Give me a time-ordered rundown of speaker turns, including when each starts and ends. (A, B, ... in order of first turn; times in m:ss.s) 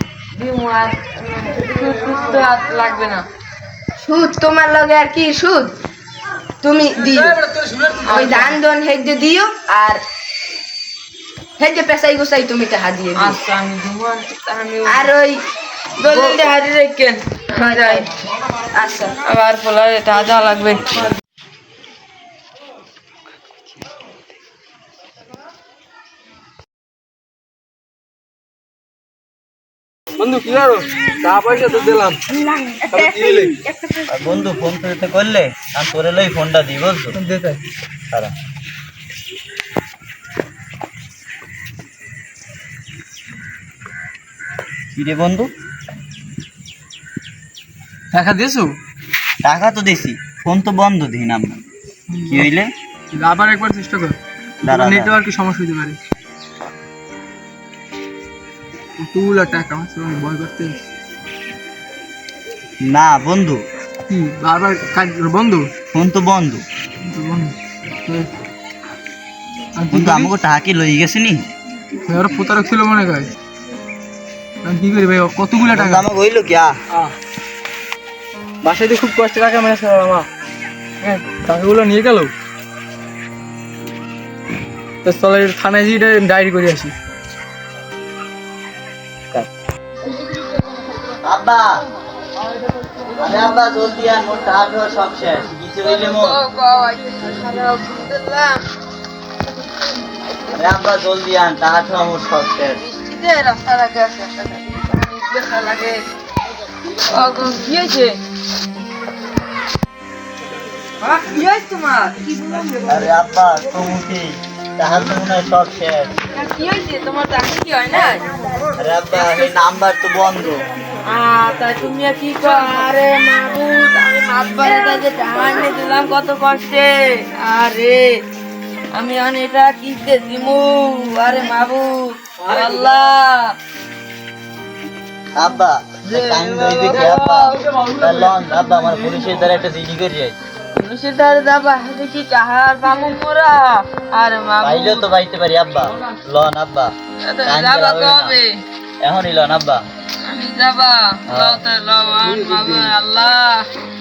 0:00.3-0:03.2 A
0:04.0-0:05.7 B
0:06.6-0:07.4 B
0:07.0-0:08.1 C
0:08.0-0:08.6 A
0:08.0-0:10.0 B
0:11.6-0:13.4 B
0:13.2-0:15.1 A
0:14.9-0:15.4 B
0:16.0-0:18.1 A
0:16.0-0:16.5 B
0:17.5-0:18.1 B
0:18.7-0:19.1 B
0:19.2-0:21.1 A
0:30.2-0:32.2 C
0:32.3-0:34.0 B
0:32.9-0:33.5 C
0:34.1-0:37.2 D
0:37.1-0:37.6 C
0:44.9-0:45.5 D
0:48.1-0:48.7 C
0:49.4-0:51.6 D
0:52.1-0:52.5 C
0:52.3-0:52.7 D
0:53.1-0:56.0 C
0:54.6-0:55.2 D
0:59.0-1:00.9 C
1:02.8-1:03.6 D
1:04.1-1:05.7 C
1:05.9-1:06.6 D
1:07.0-1:08.3 C
1:09.8-1:10.3 C
1:09.9-1:11.4 D
1:12.1-1:13.3 C
1:14.6-1:16.0 C
1:15.6-1:16.7 D
1:18.6-1:20.3 C
1:21.0-1:22.3 C
1:25.0-1:26.9 C
1:31.2-1:31.8 D
1:33.2-1:36.4 D
1:35.8-1:38.6 A
1:40.5-1:42.8 D
1:42.8-1:46.0 A
1:47.0-1:48.2 A
1:51.0-1:53.1 A
1:52.8-1:56.2 D
1:56.3-1:58.3 A
1:58.8-2:00.6 D
1:59.1-1:59.5 A
2:01.0-2:08.2 A
2:08.9-2:13.5 A
2:15.4-2:20.4 D
2:16.1-2:17.6 A
2:17.7-2:18.4 C
2:20.7-2:25.1 A
2:24.6-2:26.9 D
2:27.2-2:28.5 A
2:27.4-2:28.4 D
2:29.0-2:29.8 D
2:30.2-2:33.6 A
2:31.3-2:31.6 D